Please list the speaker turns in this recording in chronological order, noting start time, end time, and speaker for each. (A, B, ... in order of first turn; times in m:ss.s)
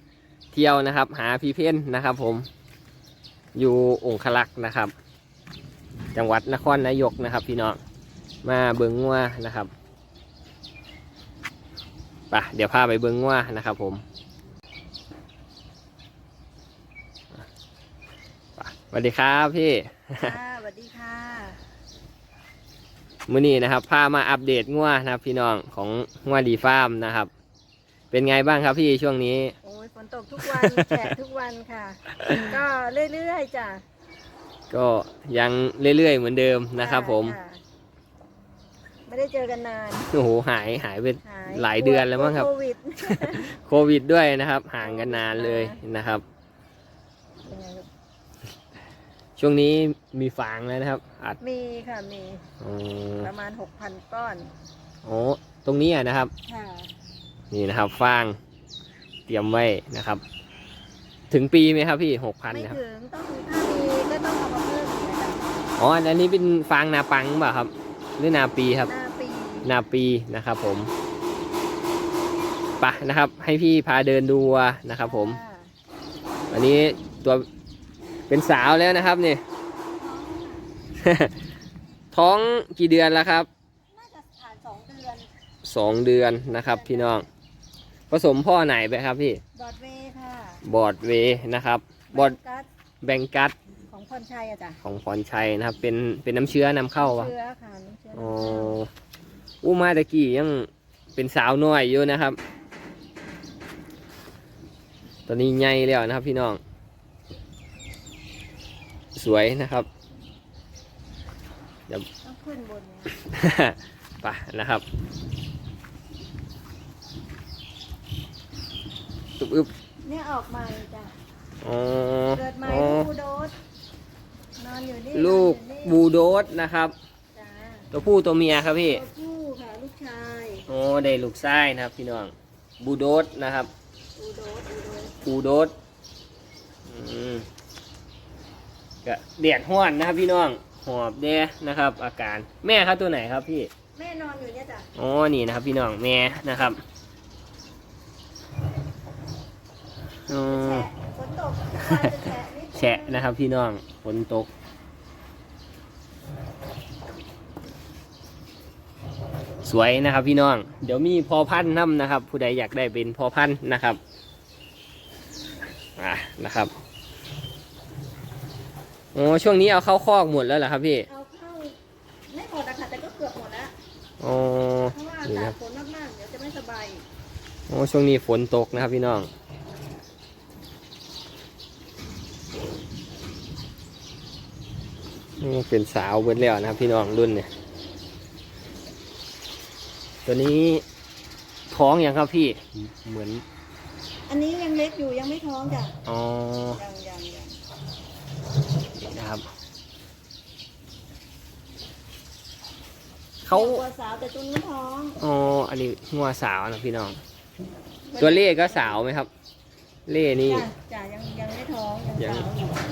0:00.5-0:02.5 A
0:03.6-0:04.9 A
0:06.2-0:07.8 A
0:08.4-0:09.7 A
0:12.3-0:14.0 A
0:18.6-0:20.4 A
0:20.2-0:21.6 B
0:23.3-0:27.3 A
0:28.1-0:29.6 A
0:29.6-0:33.8 B
0:30.4-0:31.1 A
0:32.2-0:32.5 A
0:34.7-0:37.4 A
0:36.8-0:37.6 B
0:39.1-0:40.1 B
0:40.1-0:42.5 A
0:41.2-0:43.5 B
0:43.0-0:46.2 A
0:44.8-0:45.8 B
0:47.4-0:47.9 B
0:49.4-0:51.4 A
0:51.4-0:52.4 B
0:52.6-0:53.3 A
0:53.2-0:54.5 B
0:55.0-0:56.3 A
0:56.4-0:56.9 B
0:57.5-0:58.4 A
0:59.3-1:00.2 A
1:01.3-1:02.8 A
1:02.5-1:05.6 B
1:05.8-1:08.9 A
1:08.9-1:09.8 B
1:09.6-1:10.9 A
1:12.8-1:15.4 A
1:15.0-1:15.7 B
1:16.5-1:17.5 A
1:18.3-1:19.4 A
1:19.8-1:20.7 B
1:21.0-1:21.3 A
1:22.1-1:23.5 A
1:23.9-1:25.3 B
1:25.6-1:27.3 A
1:26.5-1:27.2 B
1:28.1-1:29.4 A
1:29.6-1:30.6 B
1:30.6-1:32.4 A
1:32.1-1:32.7 B
1:33.0-1:33.5 A
1:33.9-1:34.8 B
1:34.8-1:37.3 A
1:37.0-1:38.8 B
1:38.2-1:38.9 A
1:39.6-1:42.4 A
1:45.3-1:46.6 A
1:49.2-1:49.9 A
1:52.2-1:53.1 B
1:53.3-1:54.8 A
1:59.4-1:59.7 A
2:00.0-2:01.2 B
2:01.6-2:03.1 A
2:02.3-2:03.5 B
2:04.6-2:06.0 B
2:05.1-2:06.9 A
2:07.3-2:07.9 B
2:07.9-2:09.0 A
2:08.9-2:10.7 B
2:10.7-2:13.7 A
2:14.2-2:15.2 B
2:15.2-2:15.7 A
2:16.9-2:17.5 A
2:19.0-2:23.7 A
2:23.9-2:24.9 B
2:25.0-2:26.8 A
2:30.3-2:30.9 A
2:30.3-2:33.3 B
2:31.8-2:32.2 A
2:32.8-2:34.5 A
2:39.6-2:44.0 A
2:46.0-2:46.7 A
2:49.1-2:51.1 A
2:51.1-2:51.8 B
2:52.3-2:53.7 B
2:54.2-2:55.5 A
2:54.9-2:57.0 B
2:57.7-2:59.3 A
3:05.4-3:07.5 A
3:10.3-3:10.8 A
3:11.7-3:13.4 A
3:14.3-3:16.0 B
3:16.0-3:16.8 A
3:16.8-3:17.6 B
3:19.0-3:19.4 A
3:23.4-3:23.8 A
3:23.5-3:25.2 B
3:25.2-3:27.2 A
3:28.1-3:29.0 B
3:28.2-3:29.3 A
3:30.1-3:30.7 A
3:30.4-3:32.8 B
3:32.2-3:32.5 A